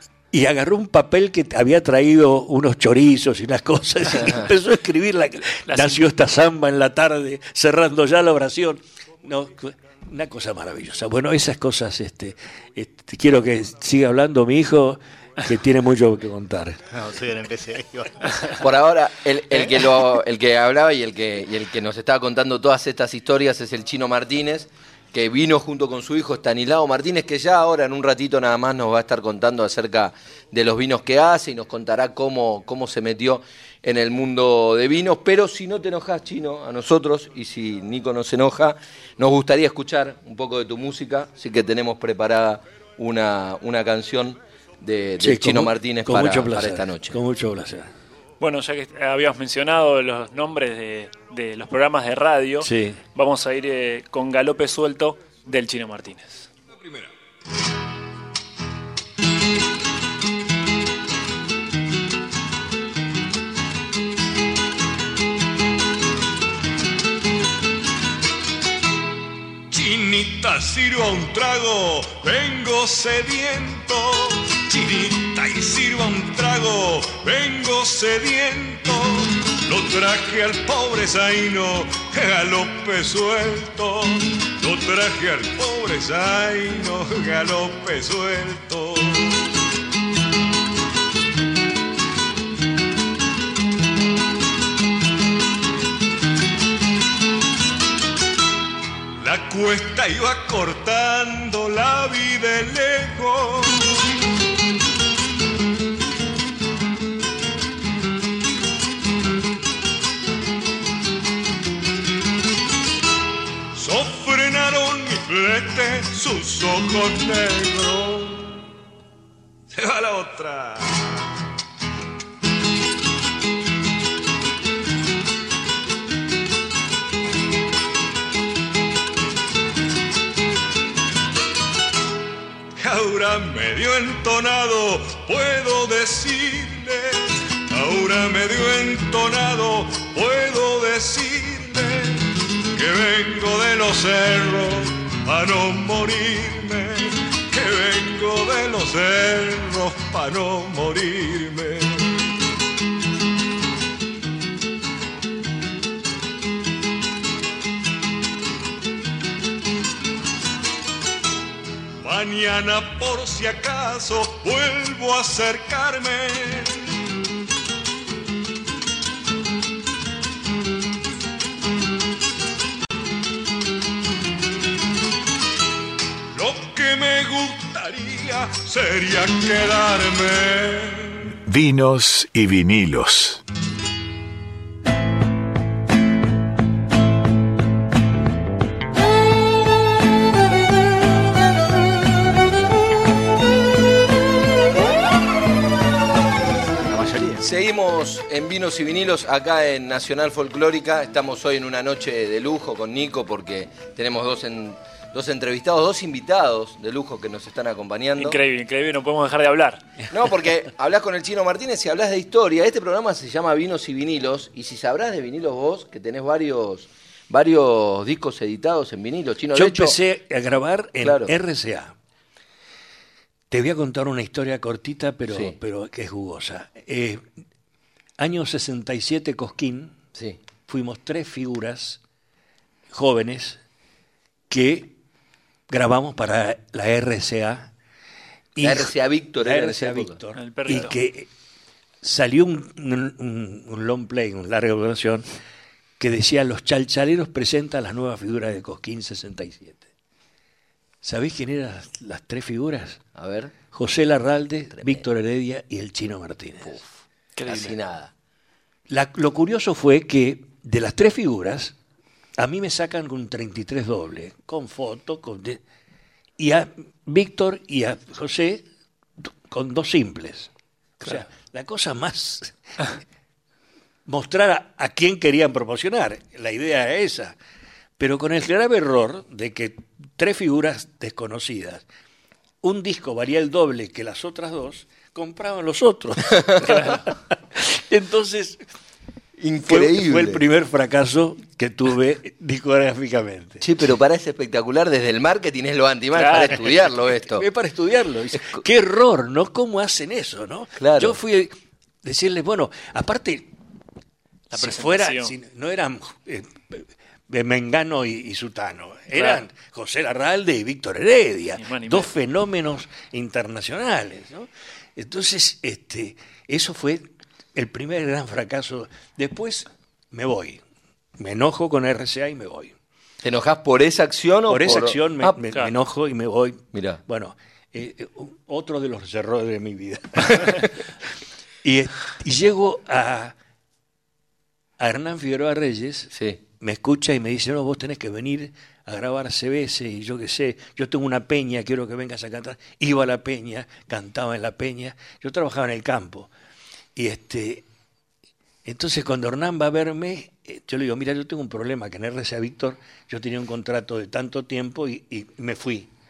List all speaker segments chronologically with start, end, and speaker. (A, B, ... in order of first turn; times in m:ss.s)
0:00.3-0:16.8 A
0:05.7-0:06.0 B
0:16.9-0:18.5 C
0:18.6-0:47.2 D
0:45.2-0:47.9 A
0:48.4-0:56.5 B
0:52.6-0:53.0 A
0:56.7-0:57.1 E
1:09.7-1:29.4 E
1:39.2-1:43.8 E
1:53.8-1:58.6 E
1:59.7-2:00.9 E
2:12.8-2:32.1 E
2:42.0-2:46.9 E
2:56.3-3:01.4 E
3:01.4-3:03.4 F
3:16.8-3:17.4 C
3:17.4-3:28.4 D
3:28.2-3:29.9 B
3:30.1-3:40.0 D
3:39.5-3:41.9 A
3:41.0-3:41.3 D
3:43.5-3:47.2 A
3:45.3-3:45.6 D
3:48.2-3:50.0 A
3:50.7-3:52.0 A
3:52.9-3:53.6 A
3:54.5-3:54.9 A
3:55.7-3:57.7 A
3:58.5-4:01.3 A
3:58.6-4:00.2 D
4:00.3-4:01.0 B
4:02.0-4:05.3 A
4:06.0-4:09.8 A
4:11.0-4:13.0 A
4:13.2-4:13.5 D
4:13.7-4:16.8 A
4:14.8-4:15.0 D
4:17.4-4:17.8 B
4:17.4-4:18.1 D
4:18.9-4:21.7 A
4:22.4-4:25.6 A
4:26.4-4:28.6 A
4:29.5-4:32.8 A
4:34.0-4:37.4 A
4:38.0-4:41.8 A
4:42.6-4:48.6 A
4:49.4-4:50.4 D
4:49.7-4:53.8 A
4:53.6-4:57.4 D
4:56.1-4:56.6 B
4:57.2-5:03.5 A
5:00.8-5:01.2 D
5:04.5-5:05.3 B
5:04.5-5:20.6 A
5:11.6-5:12.1 B
5:21.2-5:22.7 A
5:23.2-5:25.4 D
5:24.5-5:30.7 A
5:26.7-5:27.0 D
5:31.6-5:33.4 A
5:34.8-5:46.3 A
5:36.1-5:36.4 D
5:47.0-5:47.6 A
5:48.6-5:55.9 A